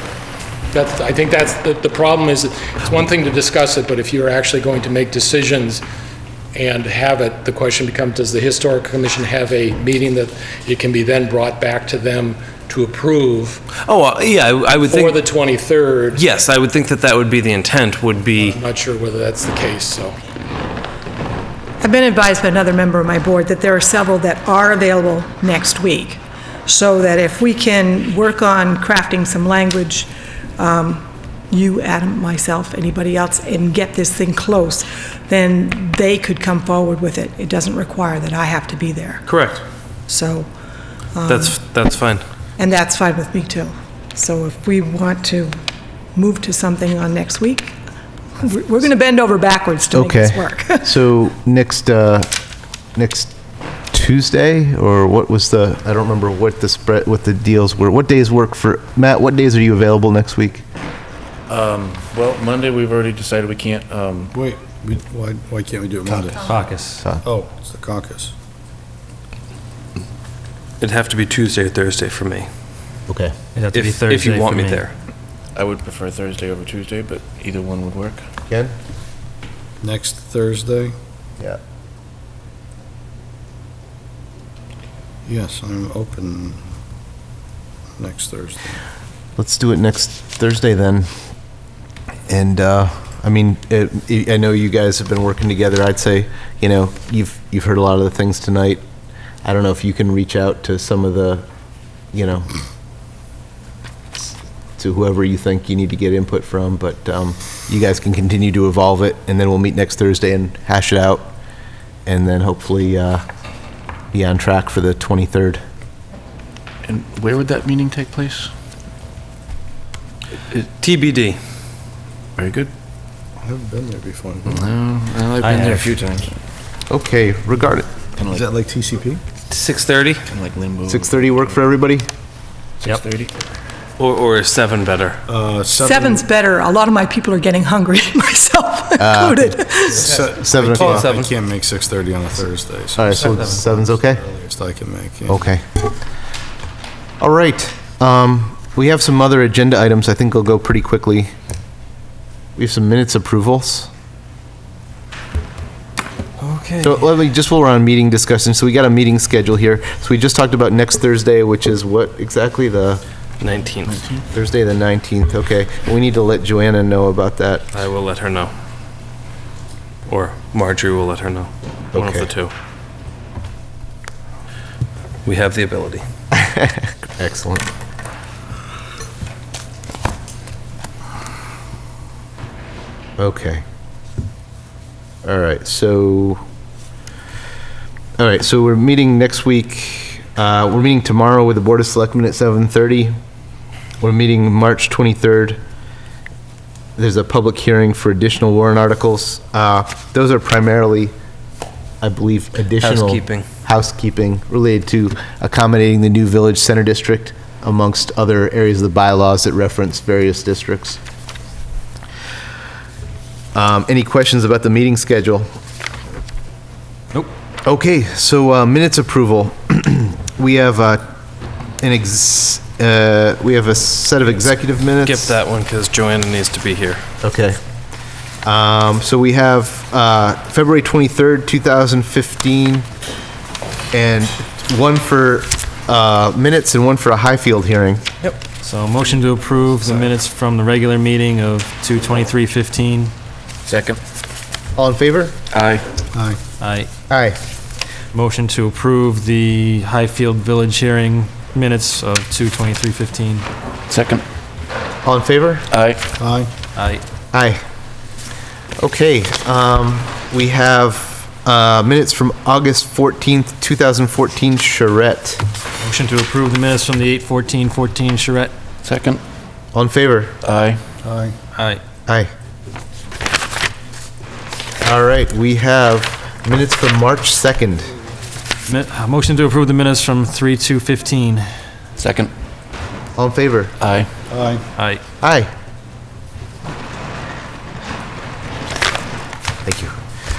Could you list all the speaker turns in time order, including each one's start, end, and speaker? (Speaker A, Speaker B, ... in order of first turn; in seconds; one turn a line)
Speaker A: 0.7-5.8
Speaker A: 6.5-13.6
Speaker B: 13.8-15.2
Speaker A: 14.8-16.2
Speaker B: 16.1-18.6
Speaker A: 18.4-20.2
Speaker C: 21.8-39.3
Speaker B: 39.3-39.6
Speaker C: 40.1-40.5
Speaker C: 41.1-41.6
Speaker B: 41.3-42.2
Speaker C: 42.6-45.5
Speaker C: 46.1-47.7
Speaker C: 48.4-50.9
Speaker D: 49.9-52.3
Speaker D: 53.0-53.3
Speaker D: 53.9-60.6
Speaker E: 61.5-64.3
Speaker F: 64.3-66.5
Speaker G: 66.4-67.0
Speaker F: 67.2-68.3
Speaker B: 70.8-72.5
Speaker D: 73.1-73.3
Speaker G: 73.5-74.8
Speaker B: 73.7-74.9
Speaker E: 75.5-78.2
Speaker D: 78.5-78.8
Speaker F: 79.8-80.9
Speaker F: 85.2-86.6
Speaker F: 88.0-88.8
Speaker D: 89.4-91.1
Speaker D: 92.3-98.8
Speaker D: 99.4-101.5
Speaker D: 102.1-102.5
Speaker D: 104.2-111.3
Speaker D: 112.0-113.2
Speaker D: 114.1-115.6
Speaker E: 116.9-118.5
Speaker B: 120.5-121.4
Speaker E: 122.4-122.7
Speaker F: 123.4-124.7
Speaker E: 124.5-126.3
Speaker G: 125.4-125.8
Speaker D: 126.9-127.9
Speaker E: 128.2-128.5
Speaker F: 128.2-129.2
Speaker B: 129.5-130.2
Speaker E: 130.3-131.5
Speaker D: 130.9-132.1
Speaker E: 132.8-133.3
Speaker B: 134.0-135.2
Speaker F: 135.3-136.2
Speaker C: 135.7-140.2
Speaker D: 139.0-141.1
Speaker F: 139.9-145.4
Speaker B: 140.7-141.3
Speaker D: 143.0-144.2
Speaker D: 145.3-145.7
Speaker D: 147.2-151.3
Speaker D: 152.6-153.9
Speaker G: 156.4-156.9
Speaker D: 156.8-163.0
Speaker B: 163.4-164.0
Speaker E: 163.9-164.2
Speaker D: 164.3-167.7
Speaker B: 167.7-168.5
Speaker B: 170.1-172.5
Speaker D: 171.9-172.3
Speaker B: 175.3-176.0
Speaker D: 176.3-177.7
Speaker D: 183.2-183.6
Speaker D: 185.2-186.4
Speaker D: 188.2-193.2
Speaker D: 194.0-195.6
Speaker D: 197.0-201.1
Speaker D: 202.0-211.0
Speaker B: 202.8-203.4
Speaker D: 213.6-215.5
Speaker D: 217.7-221.0
Speaker D: 221.8-225.4
Speaker B: 225.1-227.0
Speaker D: 227.2-227.6
Speaker D: 228.4-232.9
Speaker D: 233.9-238.0
Speaker G: 238.6-243.1
Speaker E: 243.7-244.0
Speaker D: 244.8-245.3
Speaker E: 245.5-245.8
Speaker F: 246.1-246.4
Speaker G: 246.6-246.9
Speaker D: 247.1-247.4
Speaker G: 248.1-253.5
Speaker E: 253.9-254.2
Speaker D: 255.0-255.7
Speaker E: 255.7-256.0
Speaker F: 256.2-256.5
Speaker G: 256.8-257.0
Speaker D: 257.3-257.6
Speaker D: 258.8-265.4
Speaker G: 265.8-268.5
Speaker E: 268.8-269.2
Speaker D: 269.7-270.4
Speaker E: 270.4-270.8
Speaker F: 271.0-271.4
Speaker G: 271.6-271.8
Speaker D: 274.8-277.9
Speaker G: 278.7-281.5
Speaker E: 282.0-282.3
Speaker D: 283.2-283.8
Speaker E: 283.8-284.1
Speaker F: 284.3-284.6
Speaker G: 284.8-285.0
Speaker D: 285.2-285.5
Speaker D: 289.6-289.9